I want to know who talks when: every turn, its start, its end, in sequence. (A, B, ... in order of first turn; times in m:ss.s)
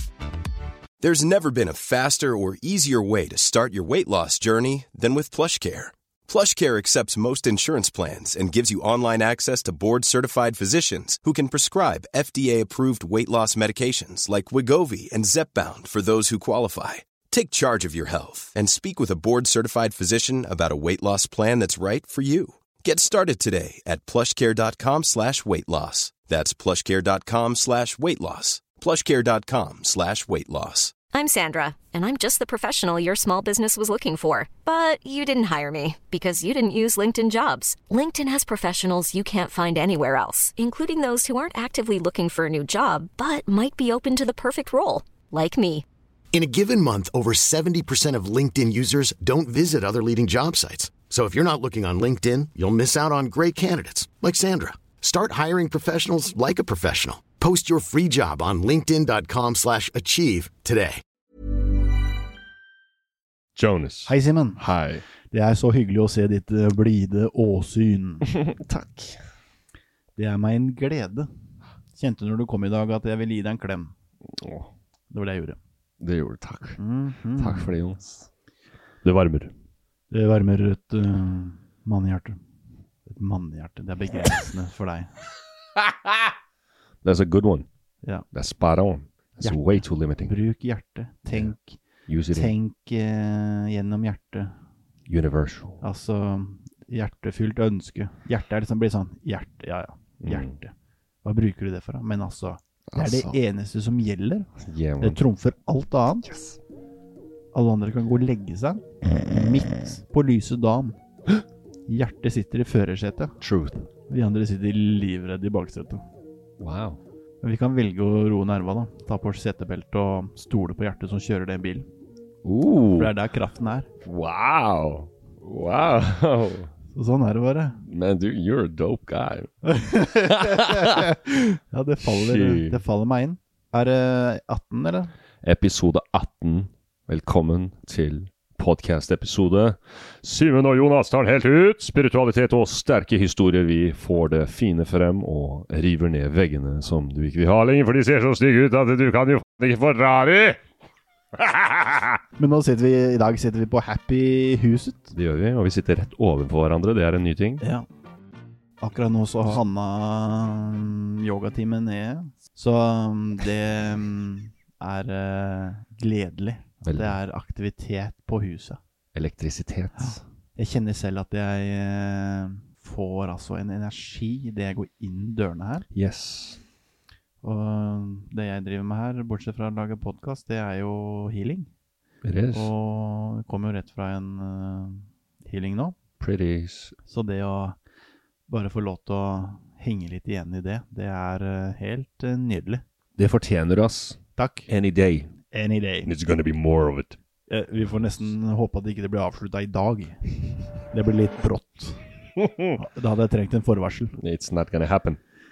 0:01.0-0:30.9 A
0:31.1-0:45.8 B
0:46.3-1:01.0 C
1:03.6-1:05.0 D
1:04.0-1:04.6 E
1:05.3-1:08.3 E
1:08.2-1:09.2 D
1:10.2-1:11.3 E
1:11.9-1:13.9 E
1:14.3-1:14.7 D
1:15.1-1:15.6 E
1:16.0-1:16.8 D
1:16.8-1:17.7 E
1:17.4-1:18.3 D
1:19.0-1:19.5 D
1:20.1-1:22.4 E
1:23.1-1:25.1 E
1:25.8-1:26.3 D
1:27.0-1:27.7 D
1:28.3-1:30.3 D
1:29.4-1:31.8 E
1:32.1-1:32.5 D
1:32.3-1:34.5 E
1:35.1-1:35.8 D
1:35.8-1:40.7 E
1:40.2-1:40.6 D
1:41.2-1:44.5 E
1:42.9-1:43.4 D
1:44.6-1:45.2 D
1:45.0-1:46.3 E
1:46.2-1:46.6 D
1:47.5-1:51.0 E
1:51.9-1:53.4 E
1:53.4-1:53.9 D
1:54.1-1:56.0 E
1:56.6-1:57.0 D
1:57.4-2:01.9 E
2:02.4-2:03.1 D
2:03.0-2:03.9 E
2:04.0-2:06.7 D
2:06.9-2:07.8 E
2:07.8-2:11.1 D
2:09.6-2:15.1 E
2:12.0-2:12.8 D
2:15.4-2:30.6 D
2:31.3-2:32.2 D
2:32.4-2:35.1 E
2:35.1-2:37.6 D
2:37.6-2:37.8 E
2:38.8-2:48.8 E
2:46.8-2:47.2 D
2:49.1-2:50.2 D
2:50.0-2:55.9 E
2:55.9-2:56.6 D
2:57.4-3:01.7 E
3:02.2-3:02.7 D
3:02.5-3:05.9 E
3:06.2-3:06.9 D
3:07.0-3:07.8 E
3:08.5-3:12.8 E
3:13.2-3:15.3 D
3:14.4-3:14.7 E
3:15.5-3:16.1 E
3:16.0-3:17.2 D
3:17.5-3:22.0 E
3:22.4-3:22.7 D
3:22.8-3:24.2 E
3:24.2-3:25.2 D